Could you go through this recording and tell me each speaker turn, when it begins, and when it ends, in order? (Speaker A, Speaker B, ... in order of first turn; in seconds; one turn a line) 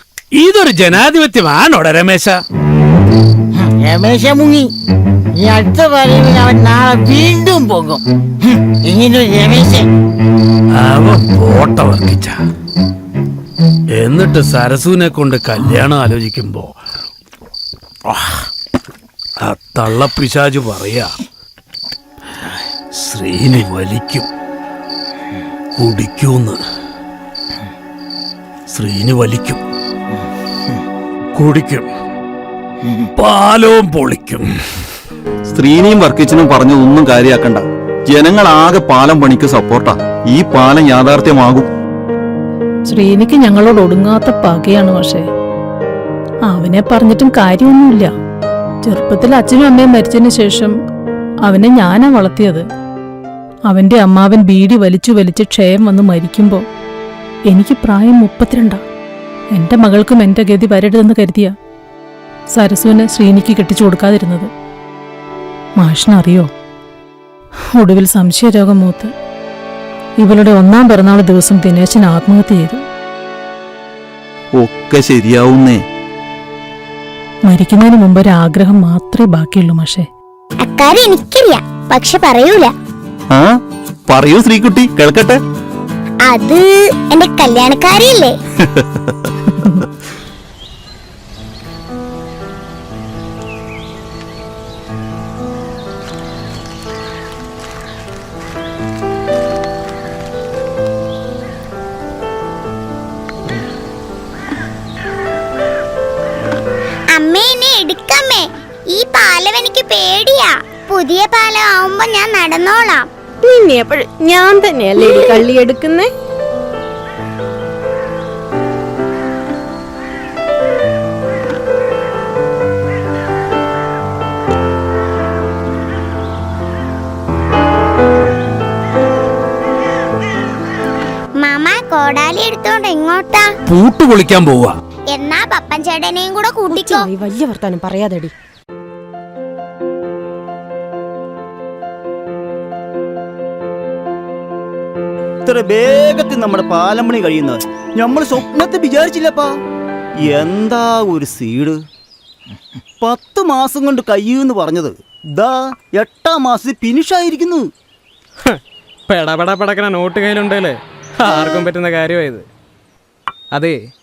Speaker A: 0.3-2.4
Speaker B: 3.6-4.7
Speaker B: 5.3-9.9
Speaker A: 10.8-12.3
Speaker A: 14.0-16.7
Speaker A: 19.4-21.2
Speaker A: 22.9-24.3
Speaker A: 25.8-26.6
Speaker A: 28.7-29.6
Speaker A: 31.4-31.9
Speaker A: 33.2-34.5
Speaker C: 35.5-41.7
Speaker D: 42.9-45.3
Speaker D: 46.5-48.1
Speaker D: 48.8-50.8
Speaker D: 51.5-52.6
Speaker D: 53.7-56.6
Speaker D: 57.5-58.8
Speaker D: 59.6-61.5
Speaker D: 62.5-64.5
Speaker D: 65.8-66.5
Speaker D: 67.8-69.1
Speaker D: 70.2-72.8
Speaker C: 74.6-75.8
Speaker D: 77.5-80.1
Speaker E: 80.6-82.7
Speaker C: 84.1-85.4
Speaker E: 86.3-88.3
Speaker C: 88.7-89.3
Speaker E: 107.1-113.1
Speaker F: 113.4-116.1
Speaker E: 131.4-133.5
Speaker A: 133.7-134.8
Speaker E: 135.1-137.1
Speaker F: 136.7-138.3
Speaker G: 145.4-149.5
Speaker G: 150.3-151.8
Speaker G: 153.0-157.7
Speaker H: 158.5-162.4